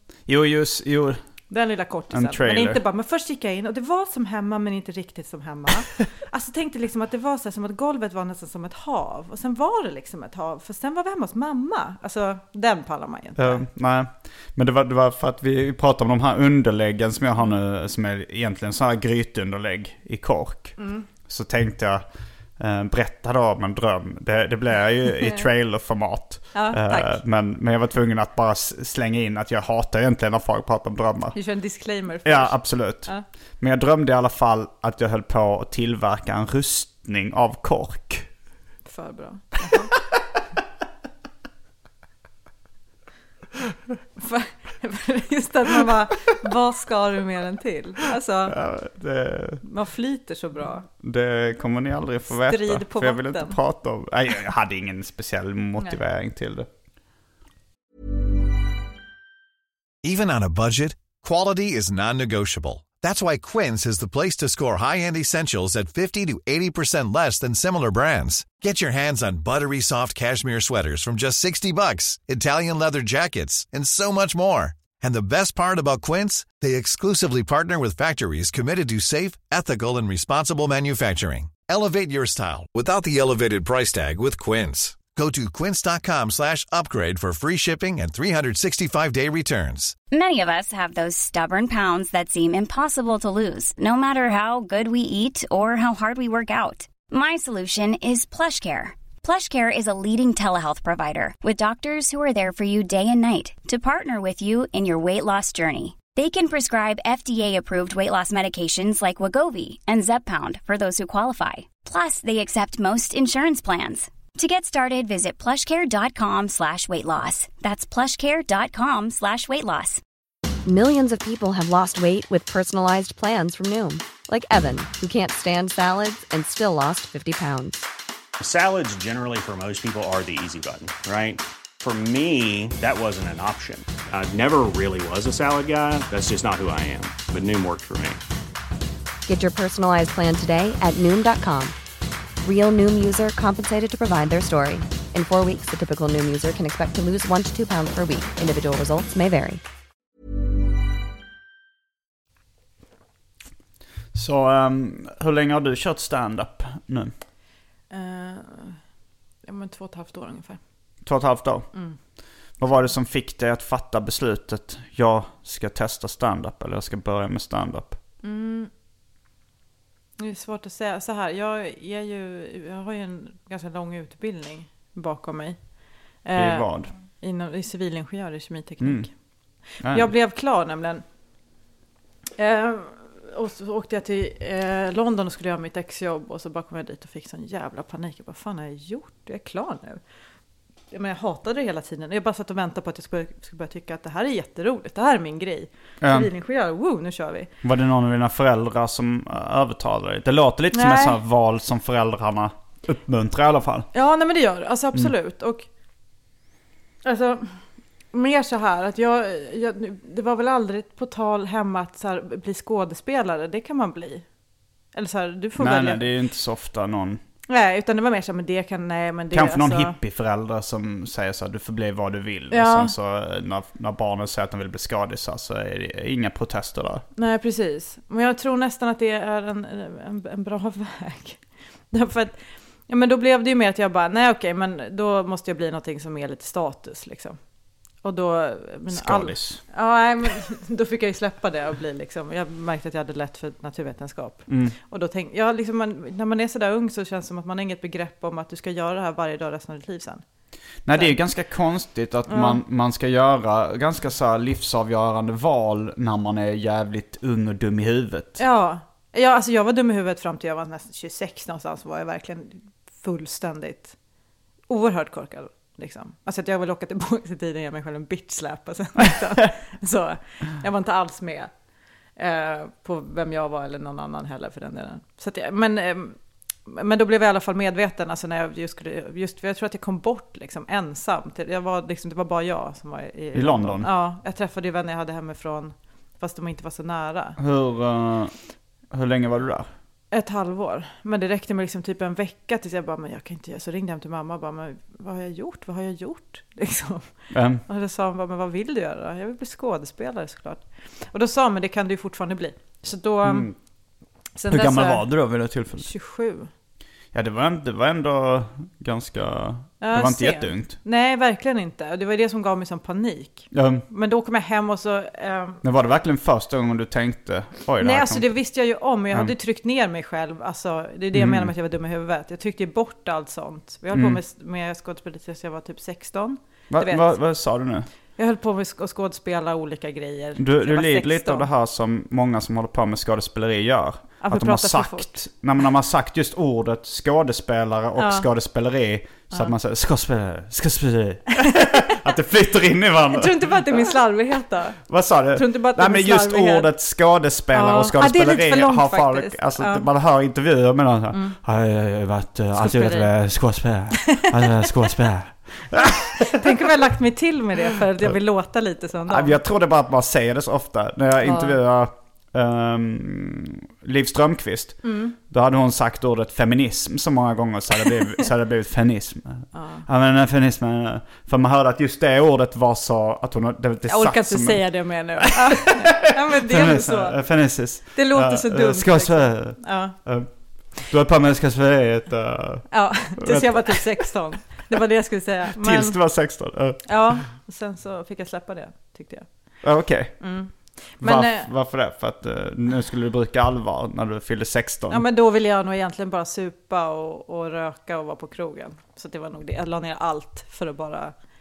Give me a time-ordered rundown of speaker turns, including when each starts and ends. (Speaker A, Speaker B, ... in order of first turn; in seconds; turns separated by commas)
Speaker A: 0.3-1.2, Speaker B: 1.5-13.7, Speaker A: 2.1-2.8, Speaker A: 13.4-22.0, Speaker B: 20.8-21.1, Speaker A: 22.6-31.4, Speaker B: 26.5-27.2, Speaker B: 31.3-33.2, Speaker A: 32.2-38.3, Speaker B: 38.9-39.9, Speaker B: 44.2-48.5, Speaker A: 48.5-49.6, Speaker B: 49.6-50.9, Speaker A: 51.0-56.7, Speaker B: 52.3-53.6, Speaker C: 60.0-89.9, Speaker D: 90.1-120.0, Speaker E: 120.7-127.8, Speaker F: 128.4-138.2, Speaker E: 139.2-141.8, Speaker E: 142.4-149.6, Speaker A: 154.1-157.1, Speaker B: 157.9-158.8, Speaker B: 159.4-160.6, Speaker A: 161.0-168.0, Speaker B: 161.7-162.0, Speaker B: 168.2-168.7, Speaker B: 170.2-181.0, Speaker A: 176.3-176.9, Speaker A: 178.8-180.1, Speaker B: 182.4-190.0, Speaker B: 190.9-197.5, Speaker A: 196.0-196.3, Speaker A: 197.6-203.9, Speaker B: 200.7-201.2, Speaker B: 203.9-205.7, Speaker B: 207.0-214.3, Speaker B: 214.9-216.1, Speaker A: 215.6-217.2, Speaker B: 217.5-219.9, Speaker A: 219.3-227.0, Speaker B: 222.5-222.9, Speaker B: 227.2-237.4, Speaker B: 238.0-250.2, Speaker A: 238.9-239.6, Speaker A: 244.5-244.8, Speaker A: 250.8-258.4, Speaker B: 250.9-251.2, Speaker B: 252.3-252.6, Speaker B: 258.4-264.0, Speaker B: 264.7-271.5, Speaker B: 272.1-287.4, Speaker A: 283.3-283.9, Speaker A: 287.4-288.4, Speaker A: 288.9-289.7, Speaker B: 290.1-303.5, Speaker A: 297.3-297.6, Speaker A: 303.2-303.6, Speaker B: 304.4-305.1, Speaker A: 304.5-305.9, Speaker B: 305.8-306.5, Speaker A: 307.1-310.8, Speaker B: 309.8-315.6, Speaker A: 313.5-313.8, Speaker A: 315.6-318.5, Speaker B: 317.8-327.2, Speaker A: 321.1-321.5, Speaker A: 323.9-324.2, Speaker A: 326.7-327.9, Speaker B: 328.1-331.4, Speaker A: 330.4-343.5, Speaker B: 334.2-335.3, Speaker B: 337.9-338.3, Speaker B: 343.1-346.7, Speaker A: 344.9-356.2, Speaker B: 347.5-349.8, Speaker B: 351.1-351.4, Speaker B: 352.5-353.1, Speaker B: 354.2-354.7, Speaker B: 356.1-359.4, Speaker A: 359.1-375.3, Speaker B: 361.2-361.6, Speaker B: 364.8-365.1, Speaker B: 369.5-369.9, Speaker B: 373.9-379.9, Speaker A: 376.5-384.1, Speaker B: 382.7-386.3, Speaker A: 385.6-387.2, Speaker B: 386.9-391.5, Speaker A: 389.6-395.0, Speaker B: 394.9-401.1